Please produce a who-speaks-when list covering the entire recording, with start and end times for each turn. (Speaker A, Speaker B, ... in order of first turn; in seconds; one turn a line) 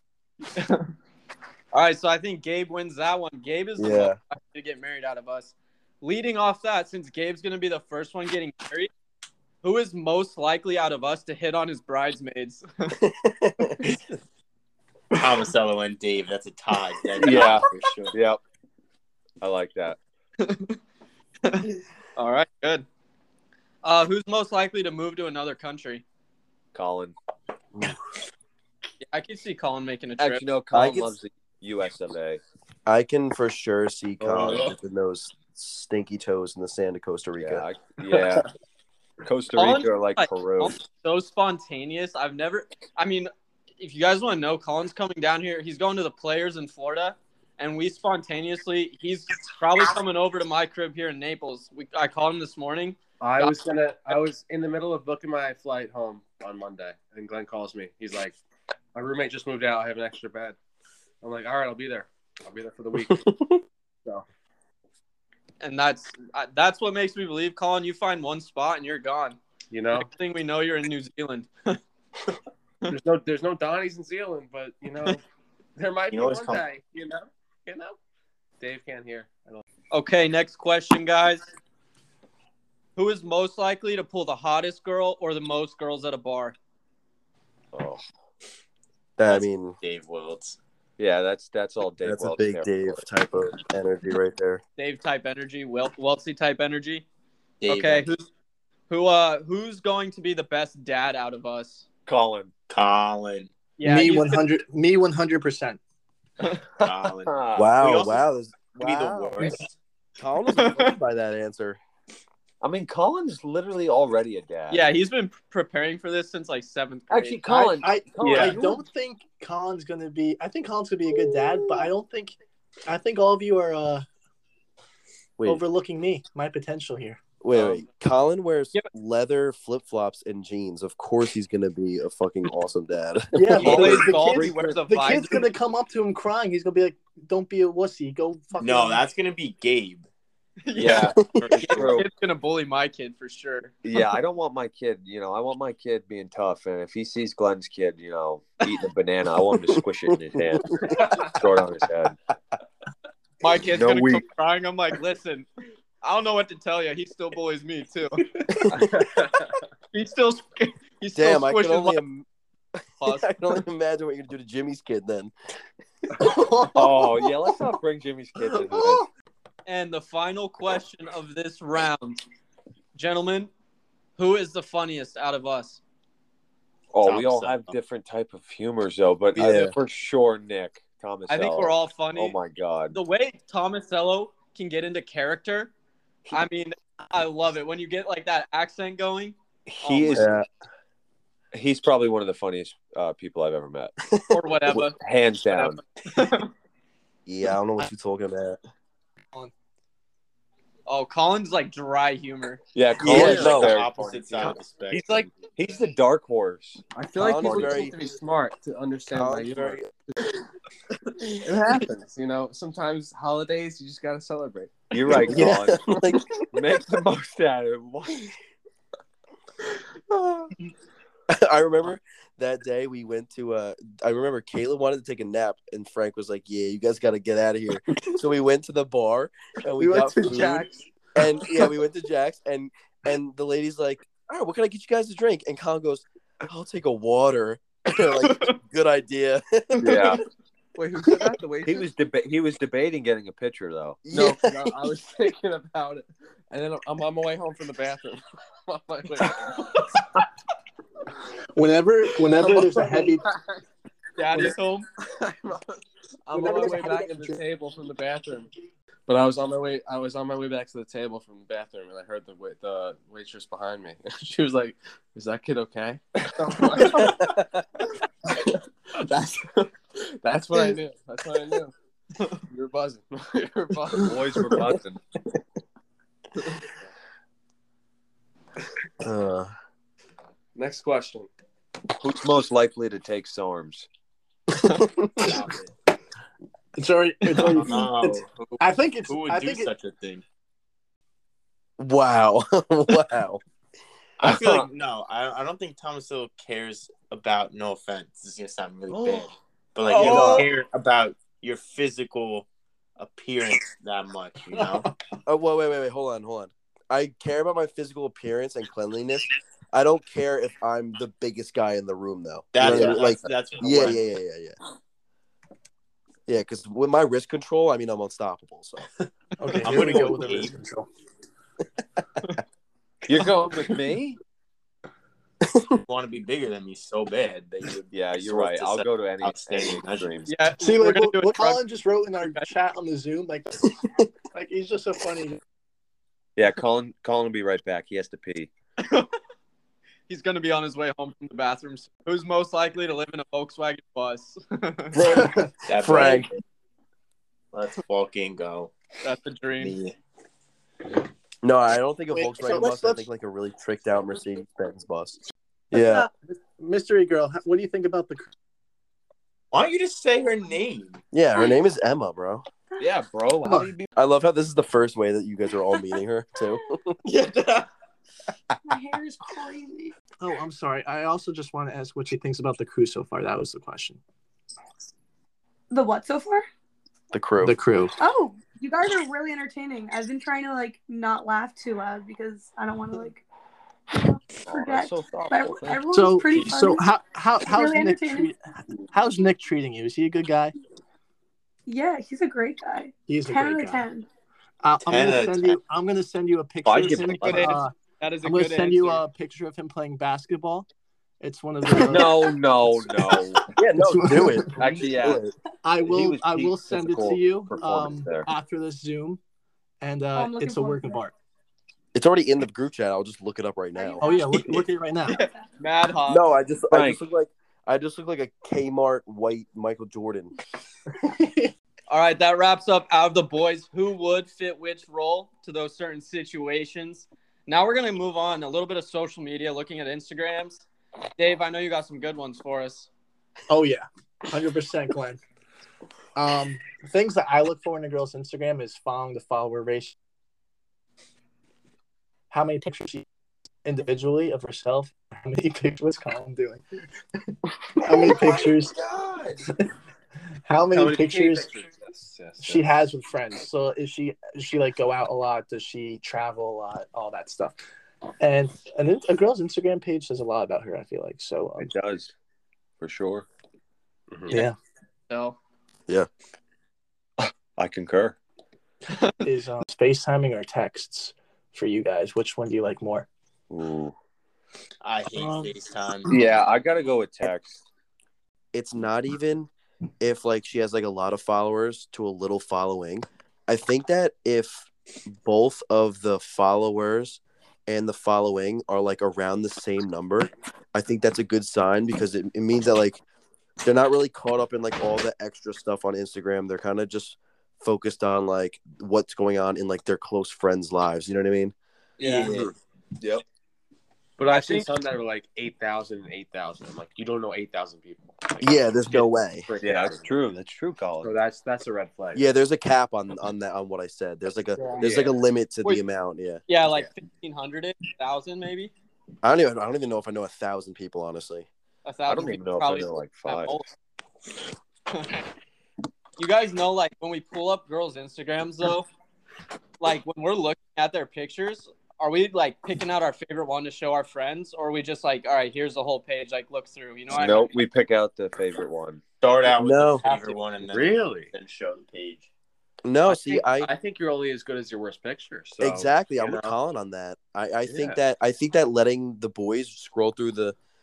Speaker A: 0.6-0.8
Speaker A: 1.7-8.9
Speaker B: 3.8-4.2
Speaker A: 9.6-12.9
Speaker B: 13.0-13.9
Speaker C: 15.2-18.1
Speaker D: 17.2-18.4
Speaker D: 19.4-20.0
Speaker A: 20.4-20.8
Speaker A: 21.4-22.9
Speaker A: 23.8-26.0
Speaker D: 26.7-27.1
Speaker A: 29.1-30.5
Speaker D: 30.2-32.4
Speaker B: 30.7-31.1
Speaker B: 32.9-37.6
Speaker D: 34.2-34.7
Speaker D: 37.4-38.5
Speaker D: 39.2-40.8
Speaker A: 39.6-53.6
Speaker E: 53.2-58.4
Speaker E: 58.9-60.6
Speaker E: 61.2-63.3
Speaker B: 63.1-63.5
Speaker A: 65.6-69.4
Speaker E: 69.7-70.1
Speaker A: 70.0-71.8
Speaker E: 72.9-75.2
Speaker E: 75.8-78.0
Speaker C: 76.1-76.6
Speaker E: 78.6-79.6
Speaker A: 79.9-81.5
Speaker A: 83.0-86.5
Speaker D: 87.7-88.0
Speaker B: 89.2-89.8
Speaker C: 89.3-90.6
Speaker D: 91.0-92.8
Speaker B: 92.0-94.6
Speaker A: 94.8-97.0
Speaker C: 97.6-98.1
Speaker A: 97.7-98.3
Speaker A: 98.9-101.8
Speaker D: 102.1-102.5
Speaker C: 102.7-103.5
Speaker A: 103.8-104.4
Speaker F: 103.8-105.8
Speaker D: 106.8-107.7
Speaker C: 106.8-109.7
Speaker B: 107.6-109.5
Speaker B: 110.2-111.8
Speaker A: 110.6-110.9
Speaker D: 112.6-114.9
Speaker A: 114.7-118.5
Speaker D: 117.1-118.8
Speaker F: 117.5-124.1
Speaker F: 125.5-127.2
Speaker B: 127.4-134.2
Speaker A: 127.5-127.8
Speaker F: 133.3-139.1
Speaker A: 133.6-135.5
Speaker C: 138.6-140.1
Speaker A: 140.7-143.7
Speaker D: 140.7-142.1
Speaker C: 141.4-142.0
Speaker D: 143.8-152.2
Speaker B: 149.7-151.2
Speaker E: 151.0-151.3
Speaker A: 153.4-155.5
Speaker D: 153.8-154.2
Speaker A: 156.0-158.2
Speaker E: 158.8-159.6
Speaker A: 159.9-162.0
Speaker B: 161.2-162.3
Speaker A: 163.0-163.3
Speaker B: 163.0-165.3
Speaker F: 166.2-167.3
Speaker D: 166.7-169.1
Speaker F: 168.5-169.1
Speaker A: 169.7-172.2
Speaker A: 173.0-173.5
Speaker A: 174.2-175.8
Speaker D: 176.9-183.0
Speaker C: 177.0-177.7
Speaker B: 179.3-179.7
Speaker A: 181.3-182.4
Speaker A: 182.9-185.7
Speaker A: 186.3-190.3
Speaker D: 189.7-190.4
Speaker B: 190.1-190.5
Speaker D: 191.5-193.9
Speaker B: 194.1-194.4
Speaker A: 194.3-195.0
Speaker D: 194.7-195.8
Speaker A: 195.5-196.5
Speaker B: 197.3-198.6
Speaker A: 200.9-202.6
Speaker D: 202.8-207.9
Speaker B: 203.0-203.7
Speaker C: 203.0-205.3
Speaker E: 203.2-203.4
Speaker A: 204.9-205.3
Speaker E: 206.9-209.8
Speaker B: 207.2-208.0
Speaker B: 209.1-209.9
Speaker E: 211.3-215.5
Speaker D: 214.9-215.9
Speaker B: 215.2-216.3
Speaker D: 216.5-218.3
Speaker B: 221.3-240.2
Speaker E: 229.8-230.9
Speaker A: 238.2-238.6
Speaker D: 239.8-240.2
Speaker E: 240.8-241.9
Speaker D: 241.7-244.0
Speaker B: 244.1-244.8
Speaker E: 244.1-249.8
Speaker F: 251.6-253.2
Speaker E: 252.4-253.6
Speaker A: 254.2-254.9
Speaker E: 254.3-258.5
Speaker F: 256.3-257.4
Speaker E: 259.1-267.4
Speaker B: 266.9-267.3
Speaker E: 269.0-271.7
Speaker E: 272.5-274.2
Speaker D: 274.0-275.0
Speaker B: 279.0-279.5
Speaker E: 280.6-281.3
Speaker D: 282.0-283.9
Speaker B: 284.7-285.4
Speaker C: 285.2-285.7
Speaker F: 286.8-289.7
Speaker C: 287.4-290.2
Speaker B: 291.8-293.4
Speaker C: 294.2-302.5
Speaker D: 294.2-294.7
Speaker D: 298.9-299.3
Speaker B: 300.0-300.5
Speaker F: 300.1-300.4
Speaker C: 303.0-304.9
Speaker F: 304.5-304.8
Speaker B: 305.3-314.6
Speaker C: 312.5-314.0
Speaker B: 316.3-318.9
Speaker F: 319.4-320.9
Speaker C: 319.6-320.6
Speaker D: 323.1-324.2
Speaker B: 325.5-325.8
Speaker C: 325.9-330.2
Speaker D: 327.9-330.3
Speaker A: 330.3-331.6
Speaker F: 330.6-335.4
Speaker D: 336.4-338.5
Speaker A: 338.8-339.1
Speaker A: 340.1-345.0
Speaker B: 344.9-346.3
Speaker F: 345.0-345.5
Speaker C: 345.7-346.4
Speaker C: 347.5-348.7
Speaker A: 349.0-349.8
Speaker C: 349.6-349.9
Speaker B: 351.4-355.2
Speaker F: 352.1-353.0
Speaker B: 355.7-356.1
Speaker F: 355.7-358.3
Speaker C: 359.5-361.0
Speaker B: 361.1-362.4
Speaker D: 362.8-363.9
Speaker B: 364.0-367.0
Speaker C: 367.1-367.7
Speaker G: 368.7-369.9
Speaker F: 370.2-374.0
Speaker G: 375.7-376.5
Speaker B: 377.1-377.6
Speaker F: 377.4-377.9
Speaker G: 378.0-383.2
Speaker G: 383.9-386.9
Speaker D: 384.5-385.9
Speaker F: 385.9-390.5
Speaker G: 387.4-388.3
Speaker G: 391.7-394.1
Speaker F: 393.1-393.9
Speaker F: 394.6-397.7
Speaker C: 394.9-395.6
Speaker D: 396.6-397.6
Speaker A: 397.2-399.0
Speaker F: 398.2-400.7
Speaker F: 401.2-404.9
Speaker D: 401.9-403.5
Speaker B: 403.6-405.3
Speaker D: 404.6-405.2
Speaker F: 405.6-409.2
Speaker D: 405.8-408.3
Speaker F: 409.8-411.1
Speaker G: 410.1-411.0
Speaker B: 411.9-414.1
Speaker G: 413.8-414.5
Speaker F: 414.0-415.2
Speaker A: 415.1-416.3
Speaker B: 416.1-420.3
Speaker D: 416.7-417.0
Speaker F: 420.9-421.5
Speaker A: 421.9-430.6
Speaker A: 431.2-432.9
Speaker F: 433.5-435.2
Speaker F: 436.2-439.9
Speaker F: 442.3-443.1
Speaker F: 443.6-446.6
Speaker F: 447.8-448.8
Speaker E: 448.3-449.4
Speaker F: 450.5-451.5
Speaker E: 450.7-452.7
Speaker F: 452.4-457.6
Speaker F: 458.2-461.7
Speaker D: 461.6-462.1
Speaker D: 462.8-463.3
Speaker F: 464.3-464.6
Speaker A: 465.1-465.4
Speaker D: 467.2-468.2
Speaker F: 469.2-473.1
Speaker D: 473.5-473.9
Speaker C: 474.8-476.2
Speaker F: 475.2-475.5
Speaker D: 476.1-477.7
Speaker B: 478.5-479.5
Speaker B: 480.0-493.0
Speaker B: 493.6-501.5
Speaker A: 502.0-502.3
Speaker C: 502.0-502.5
Speaker E: 504.2-510.1
Speaker A: 504.3-504.7
Speaker B: 508.4-509.5
Speaker D: 509.6-511.2
Speaker E: 511.0-512.3
Speaker B: 512.1-516.4
Speaker E: 514.6-515.2
Speaker A: 516.5-518.7
Speaker B: 519.2-521.5
Speaker A: 521.9-523.7
Speaker D: 522.1-523.6
Speaker A: 524.9-525.2
Speaker A: 526.2-528.9
Speaker A: 529.8-537.5
Speaker D: 537.1-539.0
Speaker C: 539.2-542.3
Speaker B: 539.5-540.0
Speaker E: 540.6-541.3
Speaker B: 542.8-543.7
Speaker E: 543.1-546.6
Speaker B: 545.6-550.6
Speaker E: 547.7-548.0